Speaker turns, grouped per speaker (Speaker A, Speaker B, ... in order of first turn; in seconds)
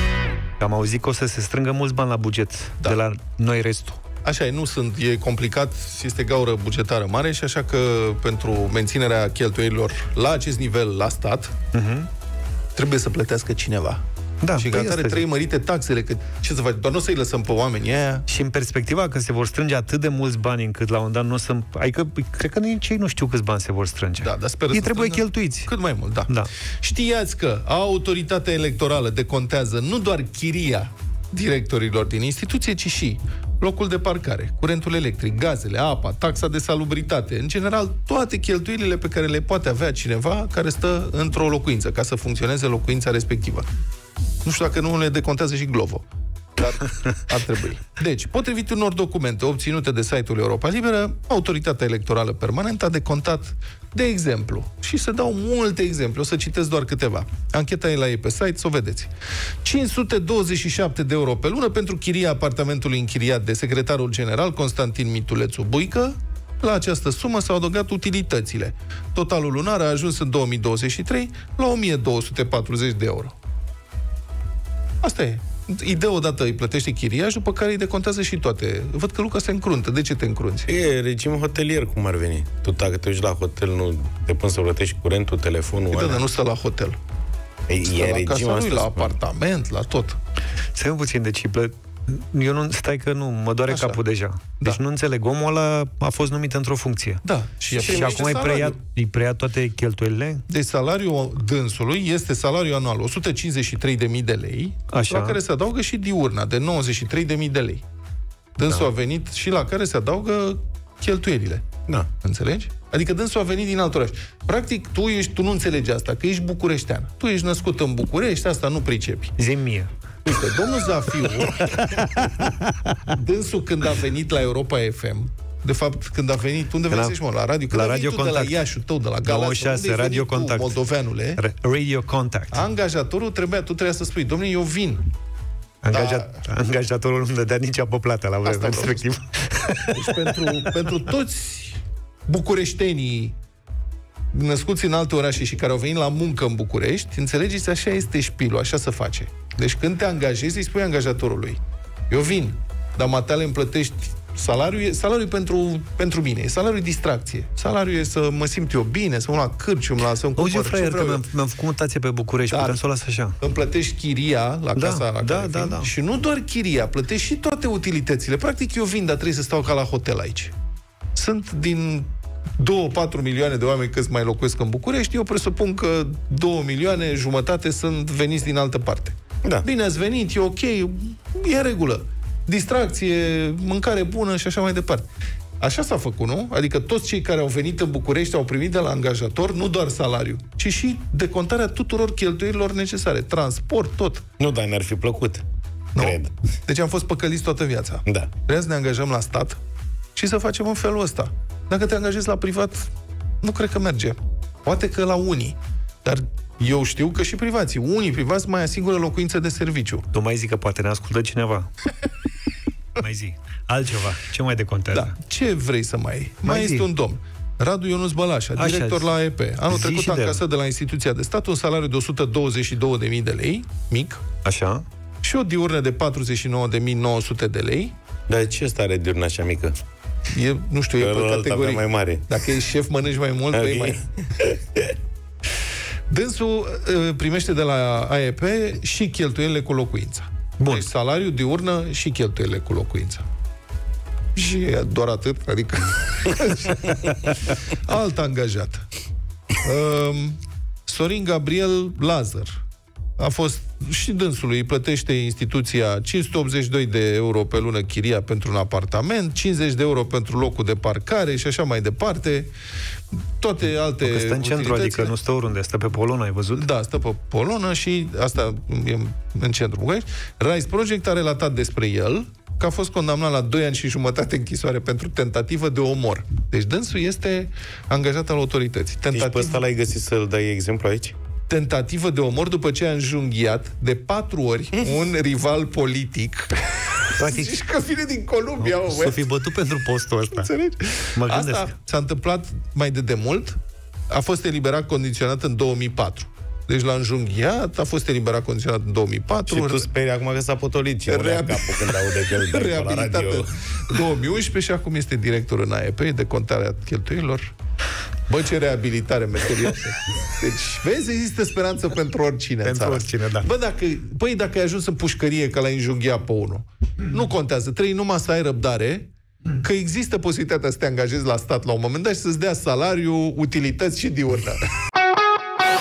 Speaker A: 0.6-4.0, 11.7-12.1, 14.4-15.2, 18.3-25.7, 90.7-100.4, 104.9-105.4, 119.4-119.9, 121.7-122.8, 126.9-127.2, 127.7-128.6, 129.2-130.8, 131.4-132.7, 135.8-140.5, 160.4-163.3, 164.8-165.9, 210.1-211.7, 213.0-215.1, 216.4-216.9, 218.6-219.1, 219.7-220.4, 224.4-224.8, 240.6-240.9, 263.9-266.7, 287.2-287.6, 288.6-290.5, 291.2-291.7, 312.6-313.5
Speaker B: 4.2-11.5, 12.8-14.0, 14.5-18.2, 24.2-43.7, 44.4-46.0, 46.6-59.1, 59.6-73.3, 75.0-80.7, 85.9-87.0, 87.8-90.2, 93.7-94.0, 97.2-98.8, 100.5-107.8, 108.6-111.7, 112.2-119.3, 120.2-122.0, 123.0-131.4, 132.5-135.1, 135.9-136.4, 138.4-139.1, 139.9-143.4, 144.3-151.6, 152.1-161.3, 162.5-162.8, 163.4-170.5, 171.2-185.1, 185.6-194.3, 195.9-199.6, 200.2-202.9, 203.4-210.1, 214.9-224.2, 225.2-227.9, 230.3-234.0, 236.1-243.2, 244.4-248.8, 249.6-252.6, 253.2-262.5, 263.4-265.1, 266.5-279.6, 281.5-289.3, 290.3-293.6, 294.1-299.9, 301.1-307.5, 308.3-324.6
Speaker C: 80.7-86.2, 87.7-89.2, 97.8-98.2, 194.4-195.4, 196.0-196.3, 198.1-198.3, 228.3-229.8, 231.0-232.3, 233.5-234.9, 279.1-281.1, 299.5-303.5